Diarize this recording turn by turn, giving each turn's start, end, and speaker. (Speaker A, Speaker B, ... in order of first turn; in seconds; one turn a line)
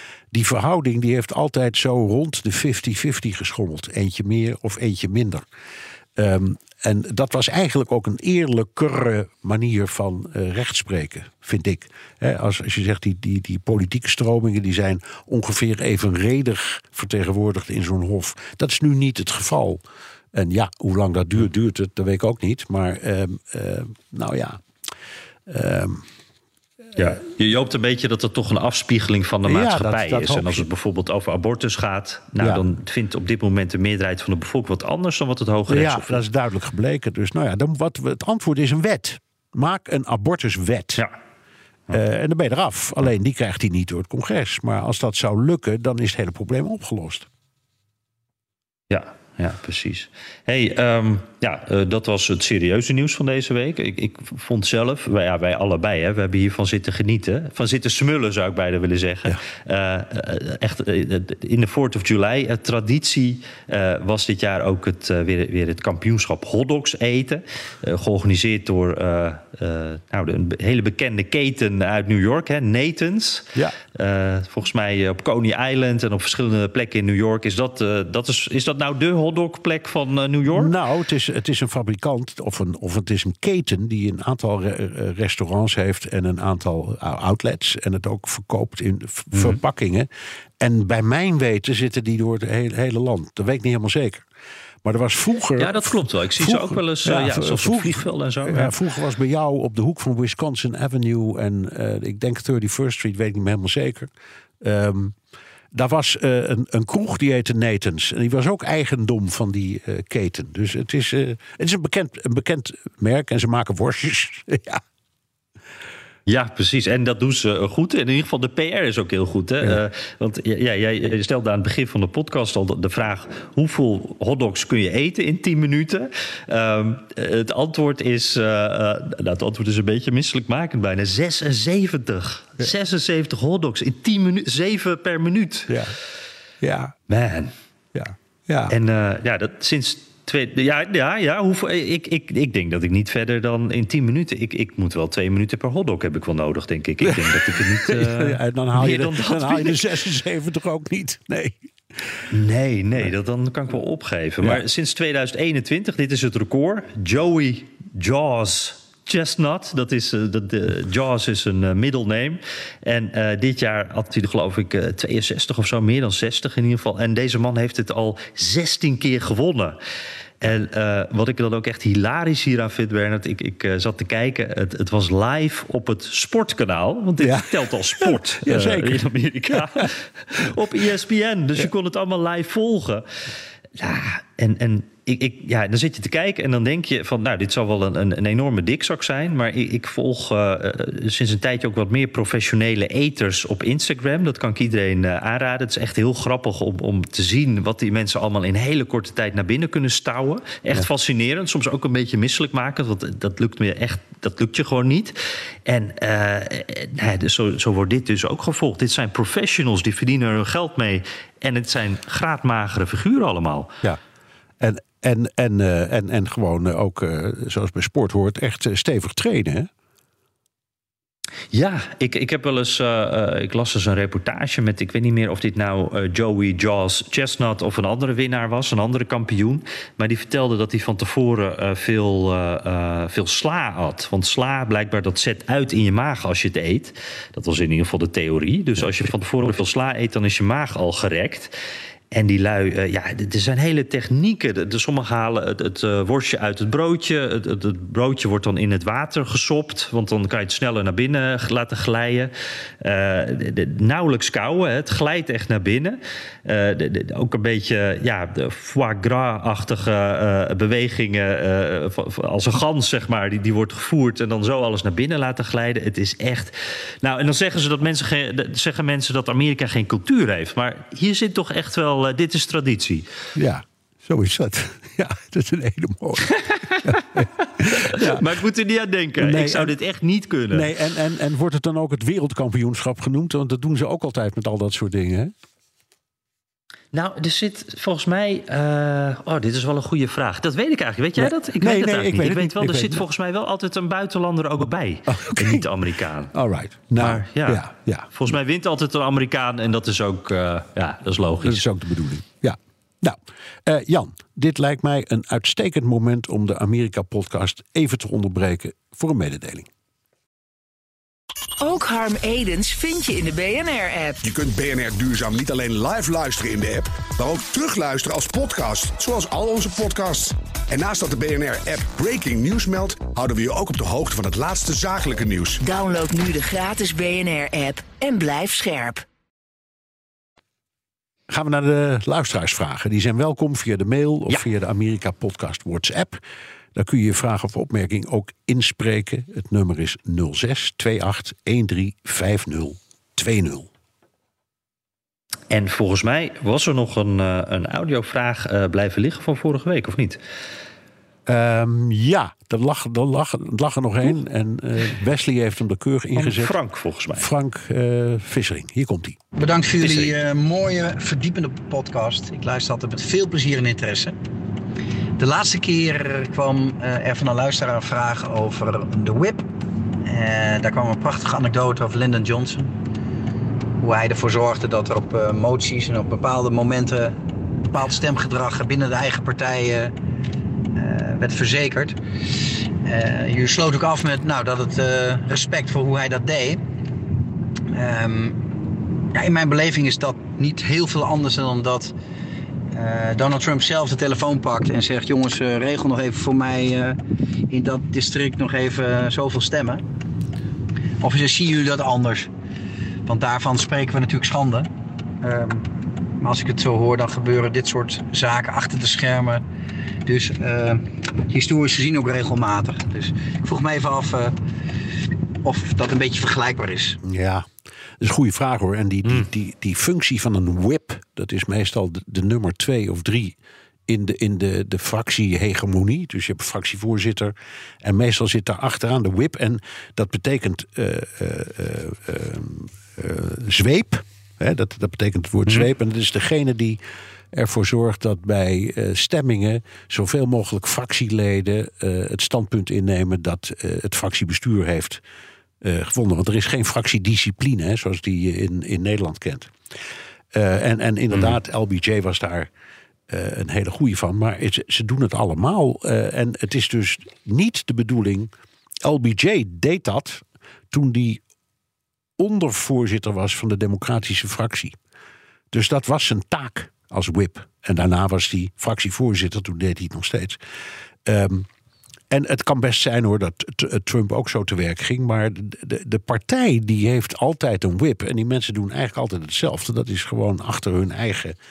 Speaker A: 0.3-5.4
Speaker A: 6.2-19.8
Speaker A: 20.3-24.6
Speaker A: 25.5-26.1
Speaker B: 27.0-36.2
Speaker A: 29.4-30.6
Speaker A: 35.7-41.0
Speaker A: 41.9-47.3
Speaker B: 48.9-80.8
Speaker A: 80.5-90.1
Speaker A: 90.6-94.3
Speaker A: 94.8-105.2
Speaker B: 95.6-98.7
Speaker A: 105.7-114.8
Speaker B: 116.3-135.8
Speaker A: 135.7-135.9
Speaker A: 136.6-136.9
Speaker B: 137.1-137.5
Speaker A: 137.9-138.8
Speaker B: 138.7-149.8
Speaker A: 147.0-151.6
Speaker B: 152.3-169.8
Speaker B: 170.4-183.1
Speaker A: 177.2-179.9
Speaker B: 183.8-213.7
Speaker A: 214.6-219.7
Speaker B: 221.5-241.5
Speaker B: 242.1-273.1
Speaker A: 273.4-278.3
Speaker B: 277.6-280.7
Speaker A: 279.2-279.8
Speaker A: 280.5-285.3
Speaker B: 286.9-296.3
Speaker A: 291.1-293.0
Speaker A: 295.1-295.7
Speaker A: 296.3-298.1
Speaker B: 297.0-301.6
Speaker A: 301.4-309.7
Speaker C: 311.6-314.2
Speaker D: 314.2-325.6
Speaker C: 325.6-329.0
Speaker A: 331.3-336.2
Speaker A: 336.8-343.7
Speaker B: 345.5-350.2
Speaker A: 351.2-356.5
Speaker B: 356.1-357.3
Speaker A: 357.1-359.2
Speaker E: 359.4-364.1
Speaker B: 359.8-360.1
Speaker E: 365.2-369.5
Speaker E: 370.0-372.8
Speaker E: 373.8-379.9
Speaker E: 380.7-382.0
Speaker E: 382.8-386.6
Speaker E: 387.7-388.4
Speaker E: 389.1-391.9
Speaker E: 392.7-397.0
Speaker E: 397.5-399.8
Speaker E: 401.0-402.3
Speaker E: 403.1-404.7
Speaker E: 405.2-409.4
Speaker E: 410.0-414.4
Speaker E: 415.4-417.0
Speaker A: 417.0-417.5
Speaker A: 418.0-423.4
Speaker A: 423.9-436.8
Speaker A: 437.3-445.0
Speaker A: 445.6-449.5
Speaker A: 450.3-452.5
Speaker B: 451.1-451.4
Speaker A: 453.1-458.3
Speaker A: 458.8-461.2
Speaker A: 462.2-464.8
Speaker A: 465.5-470.4
Speaker A: 471.1-471.5
Speaker A: 472.1-481.4